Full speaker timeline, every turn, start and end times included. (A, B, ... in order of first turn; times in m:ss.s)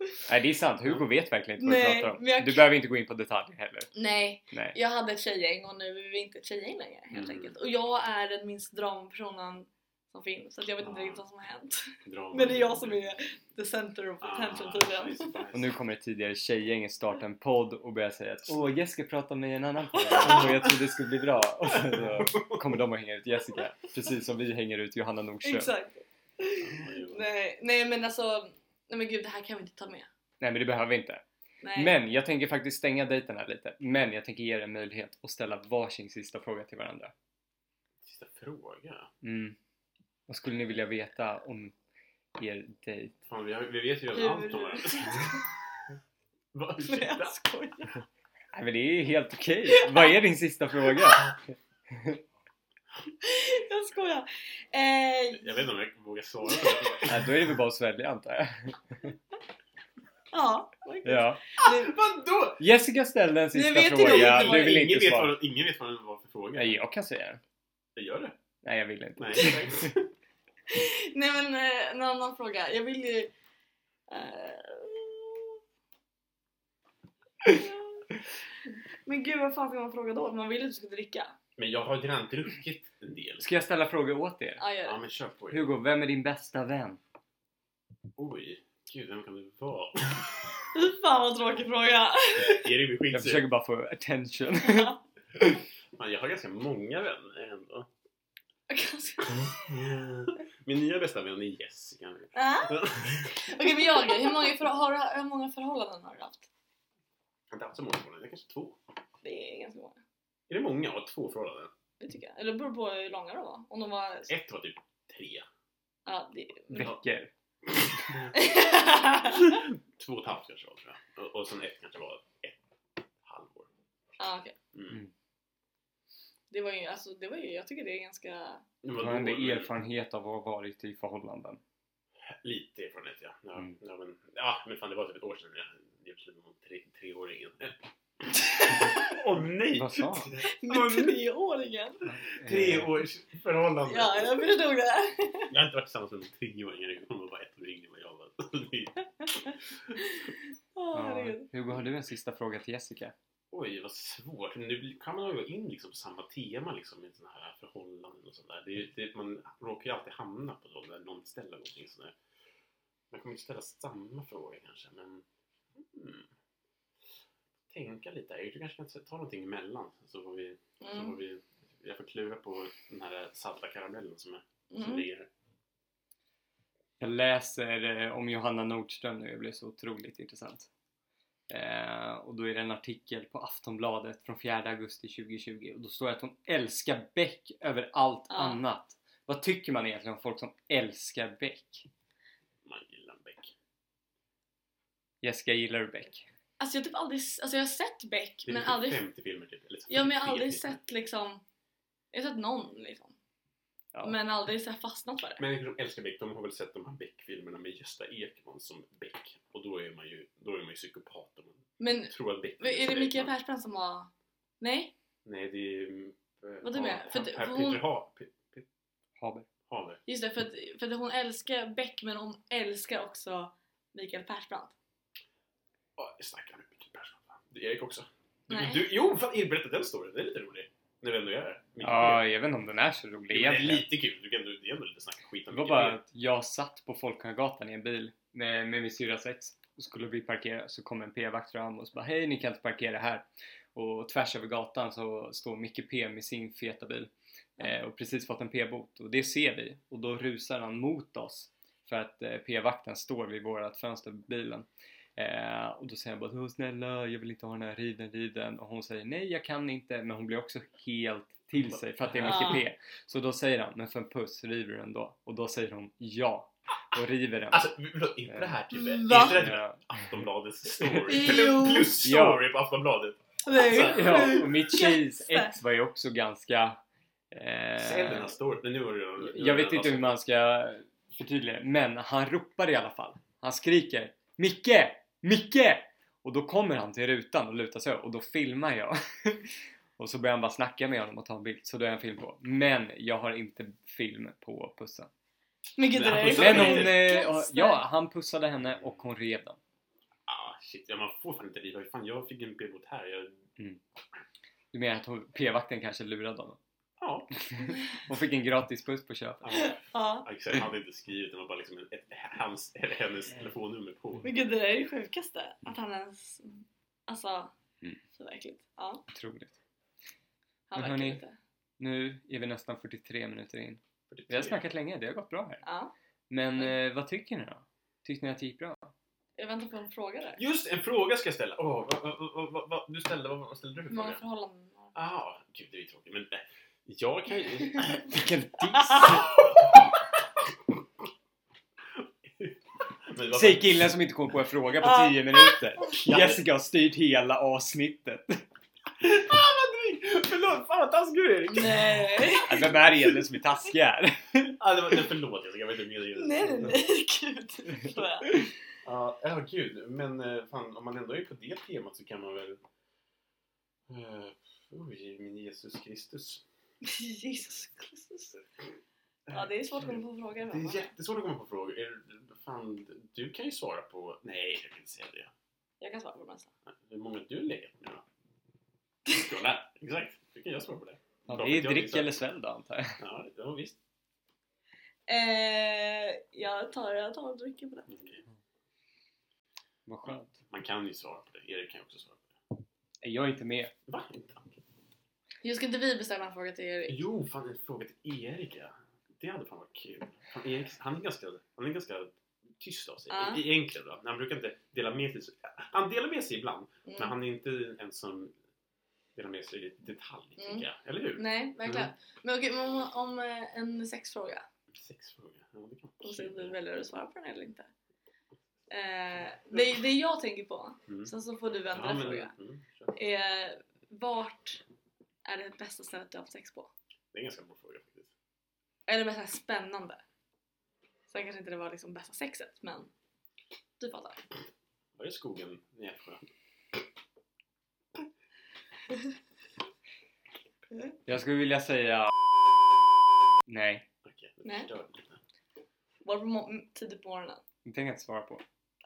0:00.2-0:03.9 A
0:01.6-0:02.7 B
0:03.9-0:15.4 B
0:04.5-0:04.8 A
0:07.1-0:07.6 C
0:10.8-0:11.2 C
0:12.0-0:13.1 C
0:14.2-0:15.8 C
0:15.5-0:25.7 A
0:20.1-0:20.4 B
0:20.1-0:20.7 C
0:21.7-0:22.6 C
0:25.4-0:30.1 B
0:26.6-0:27.3 C
0:30.4-0:31.2 A
0:31.6-0:32.0 B
0:31.8-0:37.1 A
0:38.0-0:39.1 C
0:39.2-0:39.6 A
0:40.3-0:41.7 A
0:42.4-0:43.2 A
0:43.2-0:45.4 C
0:44.1-0:45.4 B
0:46.5-0:47.4 C
0:46.8-0:47.9 B
0:48.5-0:52.2 A
0:49.7-0:50.1 B
0:50.9-0:51.2 B
0:53.2-0:55.7 B
0:55.3-0:57.5 C
0:56.5-0:56.8 B
0:57.0-0:59.1 A
1:00.3-1:01.9 B
1:01.0-1:01.4 A
1:01.6-1:02.6 C
1:02.6-1:05.4 A
1:03.5-1:04.7 B
1:03.9-1:06.8 C
1:06.5-1:07.4 A
1:08.0-1:08.4 C
1:08.6-1:09.9 A
1:09.2-1:10.1 C
1:10.7-1:13.3 B
1:14.1-1:15.6 B
1:17.5-1:18.1 B
1:18.6-1:21.4 B
1:21.6-1:23.4 C
1:23.4-1:24.6 A
1:24.6-1:25.0 B
1:24.8-1:25.7 C
1:25.5-1:27.0 A
1:28.2-1:30.6 C
1:30.7-1:32.7 B
1:32.4-1:33.4 C
1:33.1-1:35.6 A
1:34.6-1:35.0 B
1:36.0-1:37.9 C
1:38.7-1:39.6 B
1:39.2-1:44.4 C
1:42.4-1:46.5 B
1:47.5-1:48.8 C
1:49.2-1:50.0 B
1:50.5-1:51.7 C
1:52.0-1:54.3 B
1:54.3-1:55.4 C
1:56.0-1:56.9 B
1:56.7-1:57.3 A
1:57.7-1:58.5 C
1:58.3-1:59.6 B
1:59.0-2:02.6 C
2:03.2-2:03.7 C
2:04.2-2:04.6 B
2:04.7-2:05.0 C
2:06.5-2:08.6 B
2:08.8-2:09.7 C
2:09.0-2:11.6 A
2:12.4-2:17.8 C
2:18.6-2:19.1 B
2:18.7-2:21.2 C
2:19.7-2:20.4 A
2:20.4-2:22.0 B
2:22.0-2:23.0 A
2:22.4-2:24.5 C
2:23.9-2:25.5 B
2:25.5-2:30.0 C
2:30.0-2:31.4 B
2:30.9-2:33.1 A
2:33.5-2:42.2 C
2:43.1-2:46.3 C
2:47.7-2:55.3 C
2:50.8-2:51.2 B
2:54.7-2:55.0 B
2:57.0-3:00.7 A
3:01.5-3:11.9 A
3:08.3-3:08.6 B
3:12.6-3:13.5 C
3:15.2-3:16.3 A
3:16.6-3:19.0 B
3:18.5-3:20.8 C
3:19.9-3:21.4 B
3:22.1-3:23.1 B
3:24.0-3:25.4 B
3:25.4-3:33.3 C
3:31.8-3:34.9 B
3:35.2-3:38.6 C
3:36.6-3:37.8 B
3:39.2-3:39.5 A
3:39.7-3:40.0 C
3:40.1-3:44.8 B
3:46.0-3:52.2 C
3:48.5-3:48.8 B
3:51.8-3:53.9 A
3:53.3-3:56.0 C
3:55.5-4:27.7 A
4:21.7-4:22.6 C
4:22.2-4:22.6 B
4:27.5-4:34.5 C
4:28.3-4:28.6 A
4:28.7-4:29.4 B
4:29.1-4:30.2 A
4:31.0-4:32.0 B
4:32.0-4:32.4 A
4:33.4-4:35.5 B
4:33.6-4:36.8 A
4:37.3-4:38.3 A
4:37.8-4:40.1 C
4:39.2-4:55.1 A
4:55.8-4:57.8 B
4:55.9-4:57.0 C
4:56.3-4:59.6 A
4:58.8-4:59.0 C
5:00.3-5:03.4 C
5:04.7-5:06.6 A
5:07.0-5:07.3 C
5:07.3-5:09.6 A
5:09.4-5:14.3 C
5:09.5-5:10.3 B
5:14.2-5:17.5 B
5:18.1-5:19.0 B
5:19.1-5:19.6 A
5:20.7-5:21.4 B
5:20.7-5:21.2 A
5:21.8-5:25.6 A
5:24.1-5:24.6 C
5:25.6-5:25.9 B
5:26.3-5:28.9 A
5:29.4-5:30.4 B
5:30.4-5:34.2 C
5:33.9-5:34.9 B
5:34.9-5:38.2 C
5:38.1-5:39.4 A
5:39.0-5:40.5 C
5:41.9-5:43.9 C
5:43.3-5:48.4 A
5:44.8-5:46.0 B
5:46.0-5:46.4 C
5:49.0-5:52.1 C
5:51.5-5:52.7 B
5:52.4-5:54.6 A
5:54.6-5:56.8 C
5:56.2-5:58.4 B
5:58.8-6:02.6 C
6:03.9-6:06.4 C
6:06.8-6:08.4 B
6:09.3-6:15.3 C
6:09.3-6:10.9 B
6:15.8-6:16.5 B
6:16.7-6:18.0 C
6:19.1-6:22.2 C
6:21.3-6:23.0 A
6:23.0-6:23.8 C
6:25.1-6:27.9 B
6:27.9-6:28.2 C
6:29.8-6:30.4 A
6:30.0-6:32.4 C
6:33.0-6:33.7 A
6:33.9-6:34.6 C
6:35.4-6:37.0 B
6:36.9-6:48.3 C
6:43.1-6:43.4 B
6:46.9-6:47.1 B
6:49.1-6:51.9 C
6:50.4-6:50.6 B
6:51.2-6:54.4 B
6:54.7-6:56.5 C
6:56.0-6:57.7 B
6:58.7-7:02.3 B
7:01.7-7:02.9 C
7:02.9-7:04.6 B
7:05.2-7:06.7 B
7:07.1-7:08.1 C
7:08.9-7:10.0 B
7:11.1-7:12.9 B
7:13.8-7:14.2 B
7:15.0-7:16.3 C
7:21.1-7:22.1 A
7:23.5-7:23.8 A
7:24.0-7:25.2 C
7:26.0-7:27.4 B
7:27.6-7:28.4 A